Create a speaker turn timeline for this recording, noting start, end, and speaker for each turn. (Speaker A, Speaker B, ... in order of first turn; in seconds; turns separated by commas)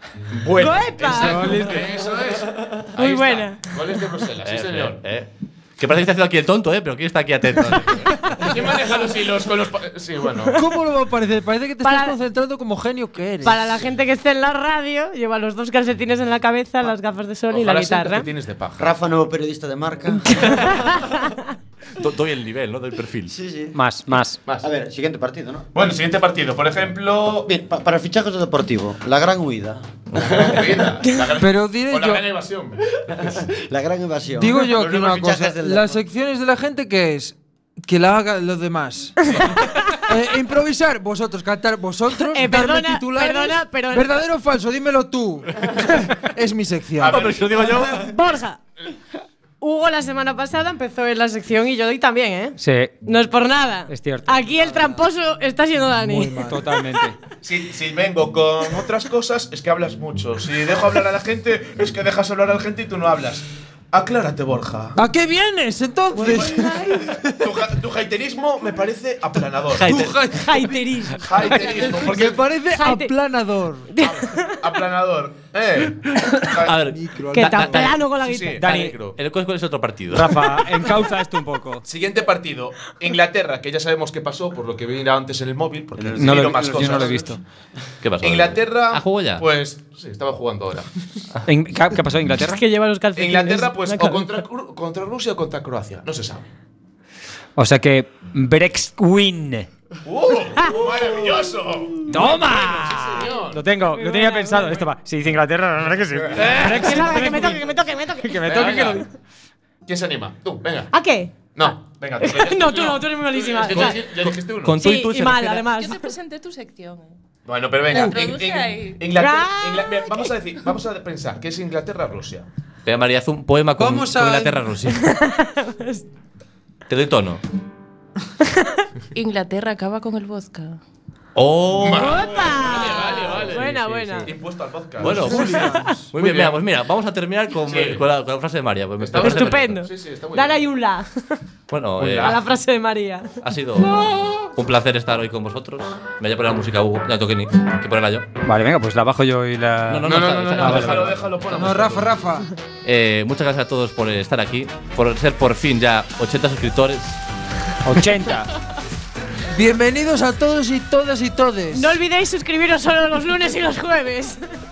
Speaker A: 0.3-5.0, Speaker B: 0.6-1.7, Speaker C: 1.2-1.7, Speaker B: 3.0-4.1, Speaker D: 4.5-8.5, Speaker A: 8.4-10.6, Speaker E: 10.6-13.8, Speaker B: 11.8-12.1, Speaker B: 13.4-18.3, Speaker A: 17.5-18.9, Speaker F: 18.8-20.8, Speaker B: 20.3-21.5, Speaker D: 22.0-23.4, Speaker F: 23.3-23.8, Speaker C: 23.7-24.4, Speaker F: 24.6-25.9, Speaker A: 25.7-27.5, Speaker F: 27.4-30.6, Speaker A: 30.1-33.5, Speaker E: 31.4-32.3, Speaker F: 32.9-36.0, Speaker E: 34.4-39.4, Speaker B: 39.3-40.1, Speaker E: 40.0-47.3, Speaker B: 42.3-44.1, Speaker A: 47.0-47.9, Speaker D: 47.0-48.1, Speaker B: 47.3-48.6, Speaker B: 49.6-56.5, Speaker C: 52.6-53.0, Speaker C: 53.9-54.4, Speaker E: 56.0-56.6, Speaker C: 56.4-57.2, Speaker A: 57.4-65.0, Speaker E: 65.0-67.7, Speaker A: 66.2-70.2, Speaker D: 69.8-70.5, Speaker E: 69.9-70.7, Speaker B: 70.2-71.3, Speaker A: 71.2-72.5, Speaker E: 71.5-74.0, Speaker B: 72.7-73.1, Speaker B: 73.9-74.6, Speaker A: 74.0-76.8, Speaker D: 76.5-78.1, Speaker E: 76.9-77.9, Speaker B: 77.3-78.7, Speaker A: 78.2-79.2, Speaker C: 78.6-79.0, Speaker D: 79.2-80.4, Speaker C: 80.1-81.8, Speaker A: 81.8-87.3, Speaker F: 86.0-87.4, Speaker C: 86.2-87.4, Speaker D: 88.0-89.5, Speaker A: 88.2-90.9, Speaker C: 91.5-92.6, Speaker B: 92.4-94.4, Speaker A: 93.2-96.5, Speaker C: 97.6-99.7, Speaker A: 100.0-103.7, Speaker C: 102.1-107.7, Speaker B: 104.0-104.8, Speaker A: 106.3-107.2, Speaker B: 106.5-109.0, Speaker C: 108.2-109.0, Speaker A: 108.5-109.0, Speaker A: 109.9-110.9, Speaker B: 110.9-114.1, Speaker A: 111.5-114.8, Speaker D: 113.7-115.7, Speaker B: 114.8-116.1, Speaker G: 115.7-117.1, Speaker A: 117.5-122.5, Speaker G: 117.9-119.1, Speaker B: 119.1-120.3, Speaker D: 122.9-125.1, Speaker E: 123.8-124.7, Speaker B: 124.9-126.0, Speaker D: 126.9-127.4, Speaker B: 128.4-128.9, Speaker G: 129.1-130.8, Speaker D: 131.4-133.5, Speaker A: 131.8-133.7, Speaker B: 131.9-134.3, Speaker C: 133.4-134.3, Speaker A: 134.2-136.6, Speaker E: 135.0-136.1, Speaker D: 135.0-139.8, Speaker B: 135.3-136.0, Speaker A: 137.7-138.1, Speaker A: 139.0-140.7, Speaker B: 139.2-141.4, Speaker D: 141.7-142.4, Speaker A: 142.0-142.4, Speaker B: 142.2-144.5, Speaker D: 143.4-143.9, Speaker D: 144.5-148.3, Speaker C: 148.4-151.1, Speaker D: 149.9-151.3, Speaker A: 150.0-152.2, Speaker E: 151.5-152.5, Speaker D: 152.8-157.2, Speaker C: 157.8-158.5, Speaker E: 159.5-162.0, Speaker B: 161.7-164.4